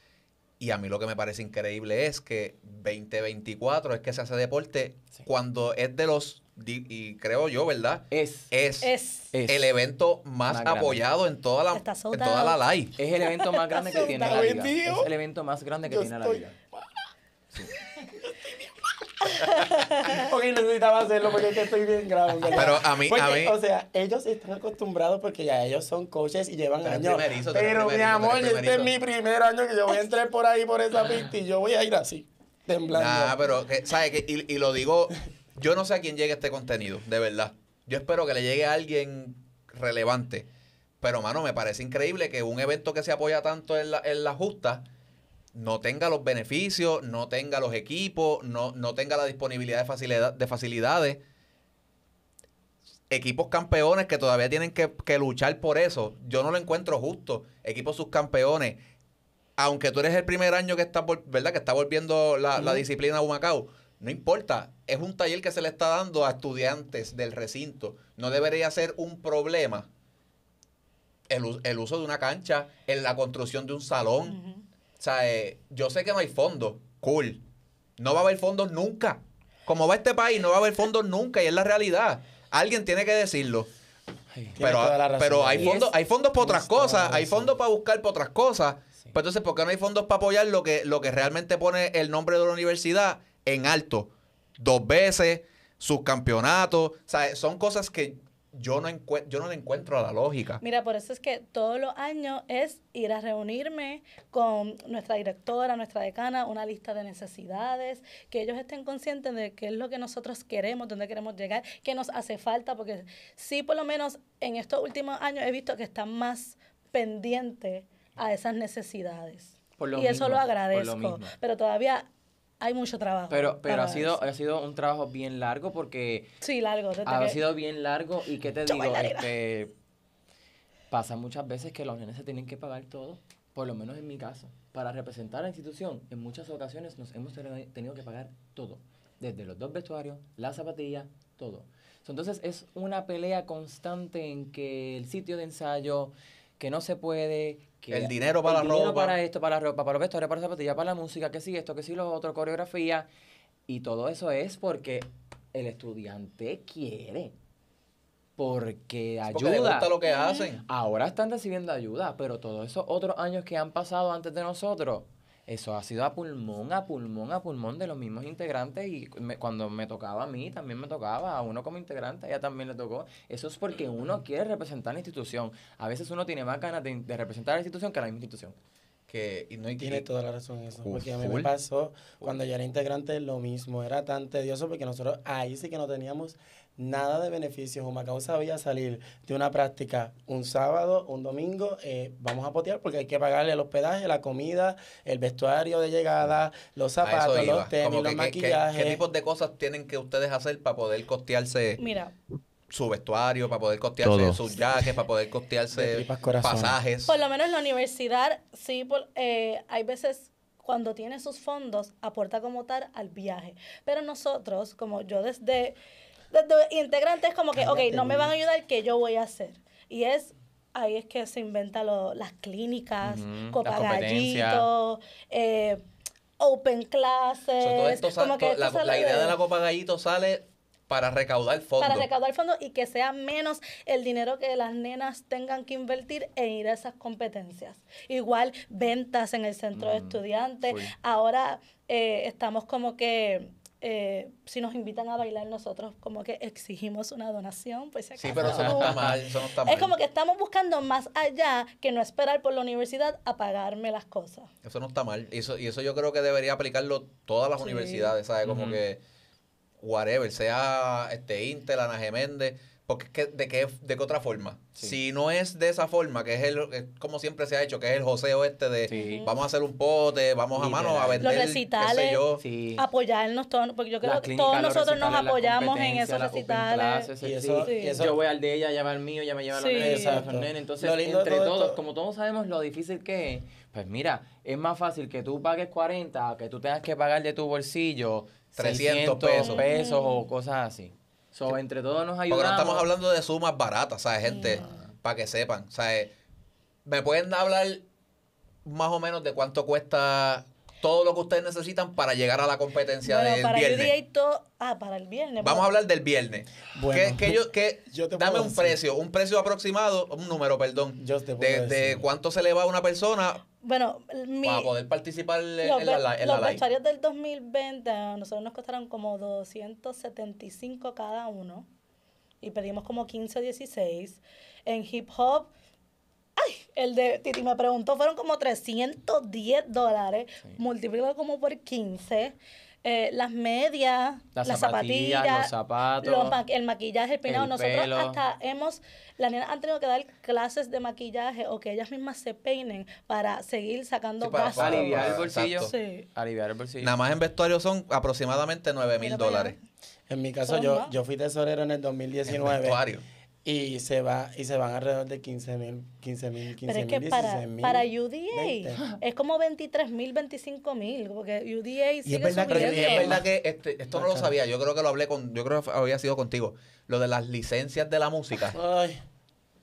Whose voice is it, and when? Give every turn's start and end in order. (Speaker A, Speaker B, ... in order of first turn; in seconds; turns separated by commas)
Speaker A: 0.6-8.9, Speaker B: 8.1-8.5, Speaker C: 8.8-9.3, Speaker B: 9.3-9.7, Speaker A: 9.5-12.9, Speaker B: 10.5-11.0, Speaker C: 11.7-12.6, Speaker B: 13.0-16.6, Speaker C: 13.2-14.0, Speaker D: 13.8-15.1, Speaker D: 15.8-16.4, Speaker D: 18.2-18.7, Speaker C: 19.3-20.3, Speaker D: 20.1-33.4, Speaker A: 22.6-23.6, Speaker A: 26.8-28.9, Speaker A: 32.9-40.5, Speaker A: 41.0-44.9, Speaker A: 45.5-51.2, Speaker A: 53.1-58.8, Speaker A: 59.6-69.9, Speaker D: 62.6-62.9, Speaker A: 71.3-74.4, Speaker C: 74.3-74.6, Speaker A: 75.0-77.4, Speaker A: 78.0-83.7, Speaker B: 84.3-84.6, Speaker D: 84.6-85.8, Speaker A: 84.6-100.6, Speaker B: 85.6-85.9, Speaker D: 86.4-87.6, Speaker C: 100.6-122.1, Speaker B: 119.8-121.3, Speaker C: 122.6-124.2, Speaker B: 123.3-126.3, Speaker C: 126.4-127.4, Speaker B: 127.0-129.7, Speaker C: 128.7-129.3, Speaker B: 130.9-153.1, Speaker A: 147.9-149.2, Speaker B: 153.7-157.3, Speaker B: 158.4-159.9, Speaker A: 159.3-160.6, Speaker C: 160.0-160.5, Speaker B: 160.7-178.6, Speaker A: 179.1-180.1, Speaker D: 179.8-199.0, Speaker A: 180.9-181.5, Speaker A: 197.0-201.8, Speaker C: 201.8-202.1, Speaker A: 202.7-207.1, Speaker B: 204.0-204.4, Speaker D: 205.7-206.8, Speaker C: 207.1-215.8, Speaker C: 216.3-225.8, Speaker D: 217.6-218.3, Speaker B: 223.0-224.7, Speaker C: 226.4-229.4, Speaker A: 227.6-232.1, Speaker C: 231.8-254.5, Speaker B: 239.8-240.9, Speaker A: 248.2-249.9, Speaker B: 248.4-249.2, Speaker A: 254.6-259.0, Speaker C: 257.6-258.1, Speaker B: 258.4-258.8, Speaker A: 259.8-272.4, Speaker B: 268.9-269.3, Speaker C: 269.0-269.4, Speaker B: 270.5-271.4, Speaker C: 271.2-272.3, Speaker B: 272.4-272.9, Speaker C: 272.8-277.1, Speaker B: 274.0-292.9, Speaker D: 277.2-278.2, Speaker C: 277.6-278.1, Speaker C: 279.5-280.3, Speaker D: 279.8-281.8, Speaker A: 288.6-289.6, Speaker C: 289.4-290.3, Speaker A: 292.3-296.1, Speaker C: 294.3-294.6, Speaker B: 294.5-294.9, Speaker A: 296.9-297.9, Speaker A: 298.6-303.9, Speaker C: 303.0-305.7, Speaker A: 305.4-313.4, Speaker D: 306.8-308.8, Speaker D: 311.0-312.1, Speaker C: 313.6-314.7, Speaker A: 314.4-316.6, Speaker C: 315.6-321.7, Speaker C: 322.4-325.5, Speaker C: 326.4-335.5, Speaker B: 334.4-336.4, Speaker C: 336.0-346.1, Speaker B: 337.3-338.2, Speaker A: 344.2-345.7, Speaker B: 344.6-346.9, Speaker A: 346.8-349.6, Speaker C: 349.0-349.6, Speaker D: 350.1-352.8, Speaker C: 350.5-350.9, Speaker A: 352.3-353.0, Speaker D: 353.4-358.8, Speaker C: 356.7-363.2, Speaker D: 362.1-363.3, Speaker A: 362.5-368.6, Speaker D: 363.9-364.3, Speaker D: 368.5-369.0